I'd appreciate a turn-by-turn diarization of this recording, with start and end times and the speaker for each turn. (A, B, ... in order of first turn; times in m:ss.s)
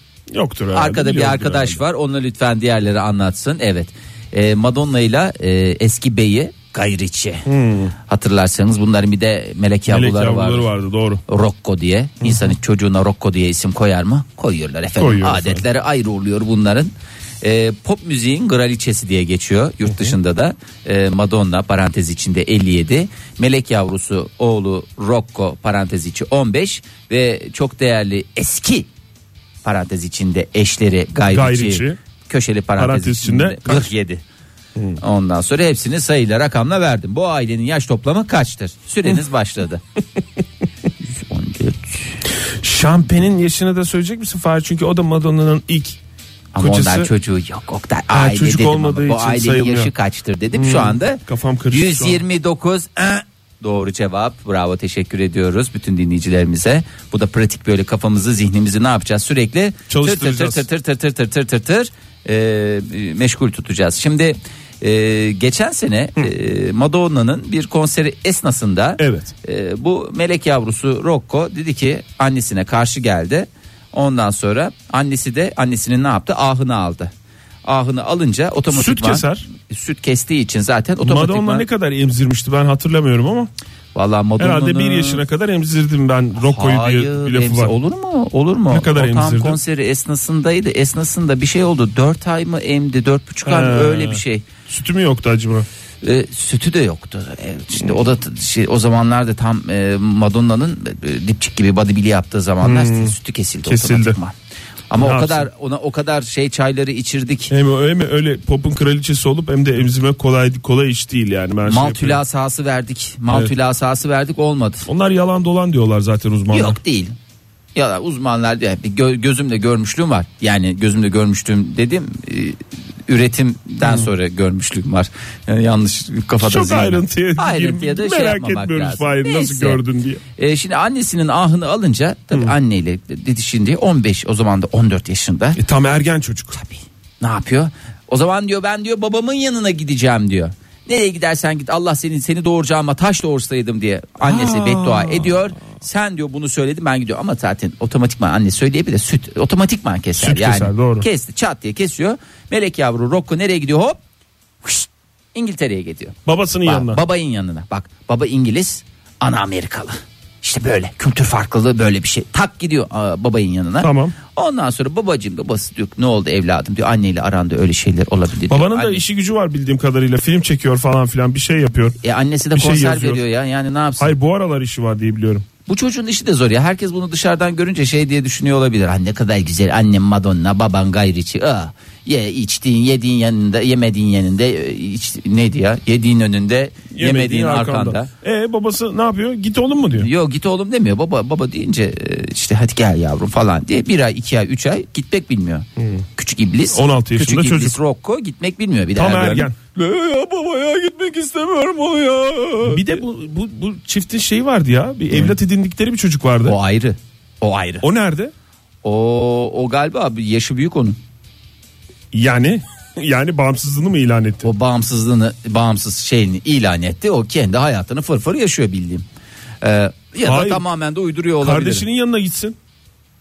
0:00.3-0:01.8 A
0:00.7-0:07.5 B
0:07.5-0:07.9 A
0:08.1-0:10.7 B
0:09.9-0:11.2 A
0:11.3-0:28.9 B
0:12.2-0:12.5 A
0:15.0-0:15.6 A
0:29.6-0:34.2 B
0:31.3-0:32.0 A
0:32.8-0:33.9 A
0:35.0-0:39.8 B
0:41.2-0:42.2 B
0:42.6-0:46.0 A
0:46.5-1:17.1 B
0:46.6-0:47.1 A
0:48.1-0:49.9 A
0:50.5-0:52.2 A
0:59.9-1:00.6 A
1:09.0-1:09.3 A
1:17.6-1:21.7 B
1:18.7-1:19.4 A
1:21.0-1:23.5 A
1:24.0-1:25.2 B
1:24.4-1:27.7 A
1:26.4-1:34.5 B
1:28.7-1:29.6 A
1:33.5-1:35.7 A
1:36.0-1:44.4 B
1:42.6-1:44.2 A
1:44.9-1:47.5 B
1:45.0-1:45.5 A
1:47.5-1:52.2 A
1:51.6-1:54.9 B
1:54.9-1:56.8 A
1:56.5-1:57.2 B
1:57.8-2:09.8 B
2:03.8-2:04.1 A
2:06.4-2:10.2 A
2:10.4-2:15.6 B
2:15.6-2:16.6 A
2:16.6-2:34.0 B
2:24.2-2:25.4 A
2:30.2-2:31.1 A
2:34.6-2:49.0 B
2:36.3-2:37.0 A
2:43.8-2:44.2 A
2:48.5-2:52.0 A
2:52.0-2:54.2 B
2:52.5-2:53.2 A
2:54.0-2:55.5 A
2:55.7-3:08.1 B
3:06.9-3:10.1 A
3:10.0-3:22.9 B
3:15.8-3:16.0 A
3:16.7-3:17.8 A
3:19.0-3:19.6 A
3:22.6-3:26.6 A
3:26.4-3:27.8 B
3:27.8-3:28.3 A
3:28.8-3:31.0 B
3:32.1-3:34.5 A
3:34.4-3:39.0 B
3:39.6-3:41.8 B
3:40.2-3:40.6 A
3:41.4-3:42.6 A